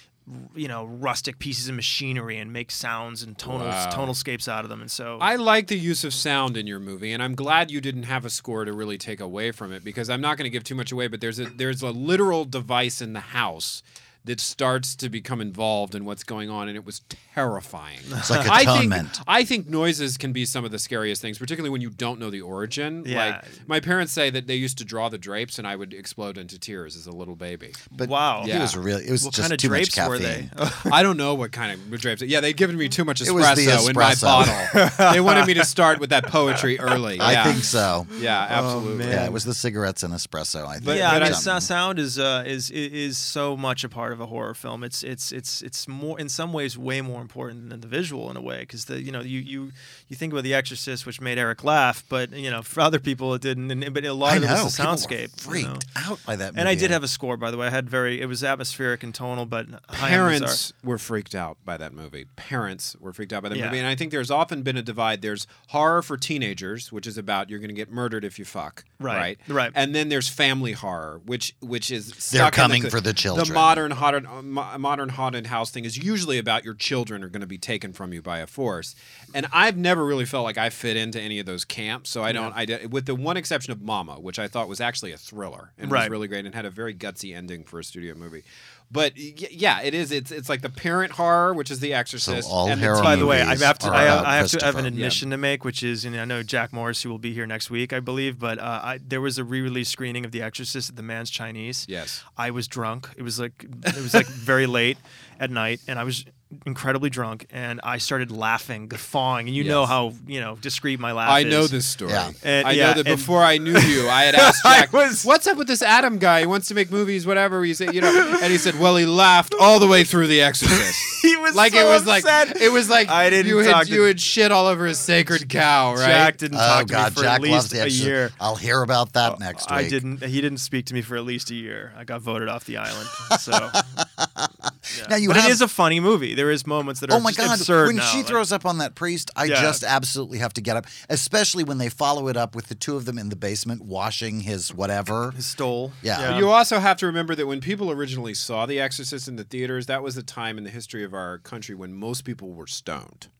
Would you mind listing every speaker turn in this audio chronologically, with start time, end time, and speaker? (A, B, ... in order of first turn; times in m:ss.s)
0:00.2-0:05.3 A
0:03.4-0:04.2 B
0:05.2-0:27.8 B
0:18.1-0:18.5 A
0:18.2-0:19.2 C
0:23.0-0:23.6 A
0:27.9-0:30.5 C
0:28.0-0:28.5 A
0:28.4-0:28.8 B
0:29.2-0:31.0 A
0:30.9-0:37.6 B
0:33.2-0:34.7 C
0:34.7-0:35.7 A
0:36.5-0:37.6 A
0:37.2-0:38.1 C
0:38.1-0:39.4 A
0:38.2-0:39.3 B
0:39.1-0:41.7 C
0:40.8-0:41.4 B
0:40.8-0:55.8 A
0:54.2-0:57.0 C
0:56.5-1:00.6 A
0:59.9-1:34.4 B
1:03.5-1:03.8 A
1:09.0-1:09.7 A
1:12.3-1:13.8 C
1:22.3-1:22.5 A
1:25.8-1:26.2 A
1:32.2-1:34.9 C
1:32.9-1:51.8 A
1:34.9-1:35.2 B
1:41.8-1:42.2 B
1:49.6-1:49.9 B
1:51.2-2:06.4 B
1:52.1-1:52.4 C
1:52.4-1:55.3 A
1:58.0-1:58.4 A
2:00.6-2:04.2 A
2:05.9-2:08.3 A
2:06.5-2:10.0 C
2:09.2-2:13.8 A
2:13.5-2:15.6 C
2:14.9-2:18.4 A
2:17.1-2:25.4 C
2:19.4-2:19.8 A
2:25.3-2:26.5 A
2:26.0-2:26.4 C
2:26.2-2:33.3 B